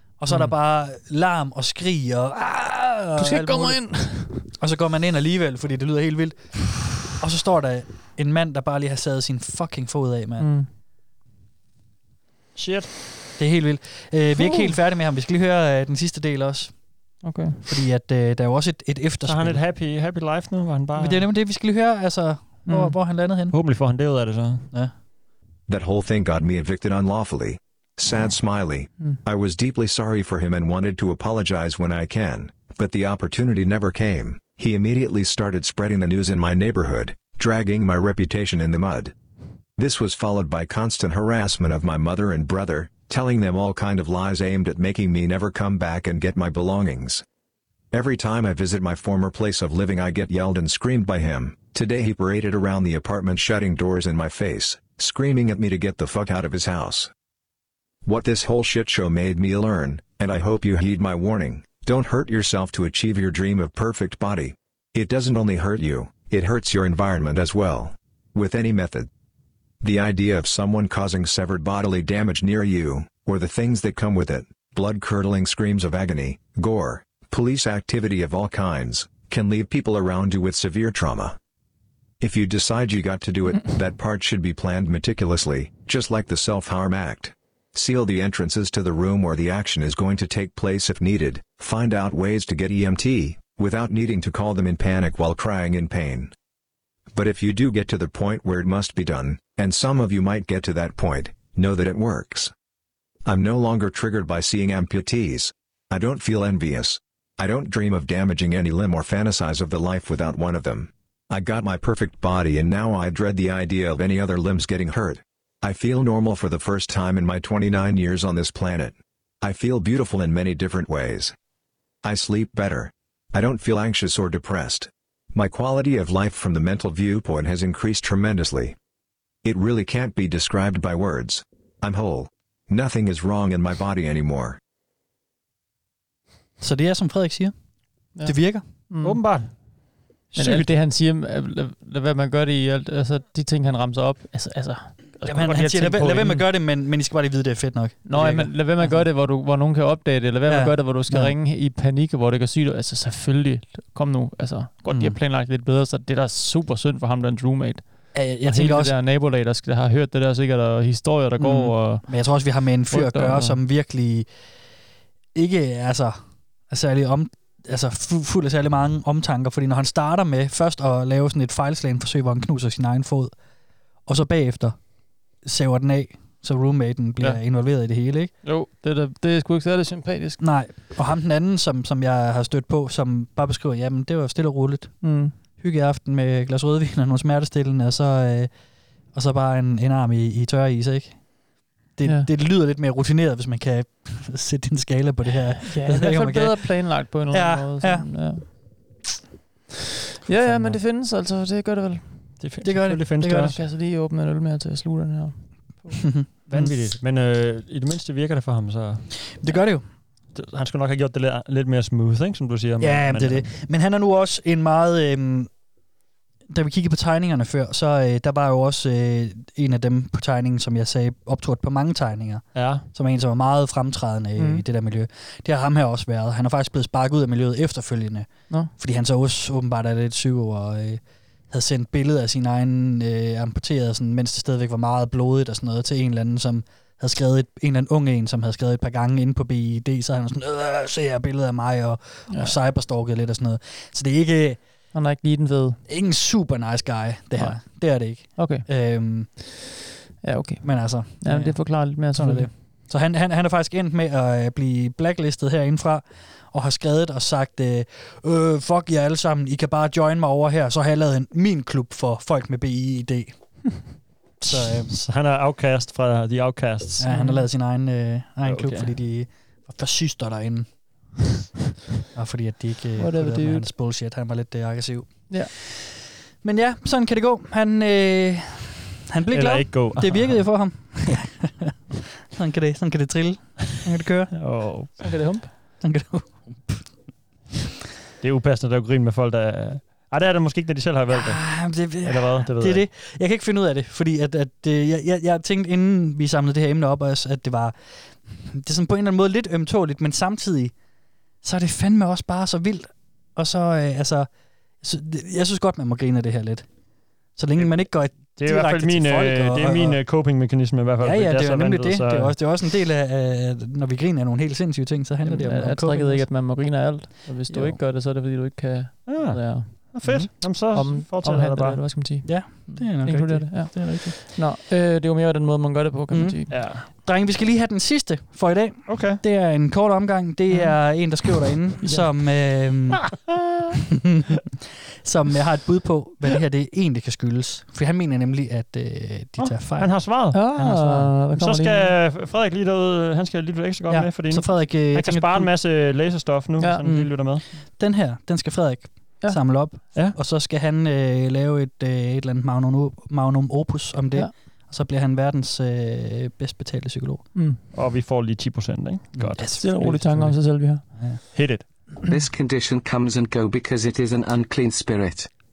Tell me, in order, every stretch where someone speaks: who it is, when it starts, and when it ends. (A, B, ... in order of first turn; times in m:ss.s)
0:00.2-0:10.5 A
0:03.2-0:04.5 B
0:10.4-0:10.7 B
0:12.6-0:12.9 C
0:13.4-0:16.8 A
0:14.3-0:14.7 B
0:17.2-0:17.6 B
0:17.6-0:19.6 A
0:19.2-0:21.3 C
0:21.0-0:23.6 A
0:22.6-0:23.0 B
0:23.5-0:24.7 C
0:25.7-0:39.1 D
0:39.8-0:47.2 D
0:47.9-0:57.1 D
0:58.0-1:09.1 D
1:09.8-1:21.4 D
1:22.2-1:36.3 D
1:37.1-1:42.5 D
1:43.2-2:01.3 D
2:02.0-2:08.8 D
2:09.4-2:14.6 D
2:16.6-2:17.5 A
2:18.1-2:19.3 B
2:18.2-2:18.6 A
2:19.0-2:19.6 C
2:20.3-2:20.7 C
2:20.3-2:26.3 B
2:25.2-2:29.0 A
2:26.1-2:26.4 C
2:28.0-2:43.6 B
2:30.4-2:31.4 A
2:34.9-2:35.2 A
2:38.1-2:38.9 A
2:41.4-2:44.3 A
2:45.3-2:53.3 A
2:54.0-2:54.8 A
2:55.4-2:58.3 A
2:58.4-3:00.4 B
3:00.4-3:08.5 A
3:05.0-3:05.3 B
3:09.1-3:11.3 A
3:11.9-3:18.5 A
3:15.6-3:18.4 B
3:20.2-3:22.3 B
3:20.3-3:20.8 A
3:22.4-3:23.6 C
3:22.6-3:23.6 A
3:23.3-3:26.0 B
3:26.0-3:26.8 A
3:26.5-3:29.1 C
3:29.3-3:29.8 A
3:30.3-3:33.5 C
3:32.8-3:35.5 A
3:36.5-4:04.6 A
3:42.5-3:42.8 C
3:44.4-3:44.6 B
4:02.3-4:02.6 B
4:04.9-4:05.8 B
4:05.9-4:09.6 A
4:07.3-4:08.7 B
4:10.2-4:12.5 B
4:10.6-4:23.9 A
4:24.4-4:27.1 C
4:24.4-4:25.0 A
4:27.0-4:31.2 A
4:27.1-4:27.4 B
4:28.4-4:28.9 C
4:32.1-4:35.9 A
4:33.0-4:33.7 B
4:36.4-4:44.3 A
4:39.3-4:40.5 C
4:44.3-4:45.0 C
4:45.0-4:45.5 B
4:45.8-4:46.8 A
4:48.2-4:52.8 C
4:51.1-5:00.7 A
5:01.4-5:04.3 A
5:04.8-5:06.7 A
5:07.3-5:10.0 A
5:07.6-5:12.3 C
5:11.0-5:16.3 A
5:15.2-5:26.6 B
5:17.5-5:17.8 C
5:19.0-5:21.8 C
5:22.2-5:24.2 A
5:26.1-5:33.2 A
5:26.5-5:26.9 C
5:28.9-5:29.2 C
5:33.0-5:33.6 C
5:35.0-5:41.1 A
5:39.4-5:47.4 C
5:40.3-5:42.0 B
5:43.9-5:45.5 A
5:46.6-5:46.9 B
5:46.8-5:57.3 A
5:57.3-5:57.6 B
5:57.7-5:59.5 C
5:59.1-6:01.2 A
5:59.4-6:00.8 B
6:01.3-6:01.6 C
6:02.0-6:05.3 E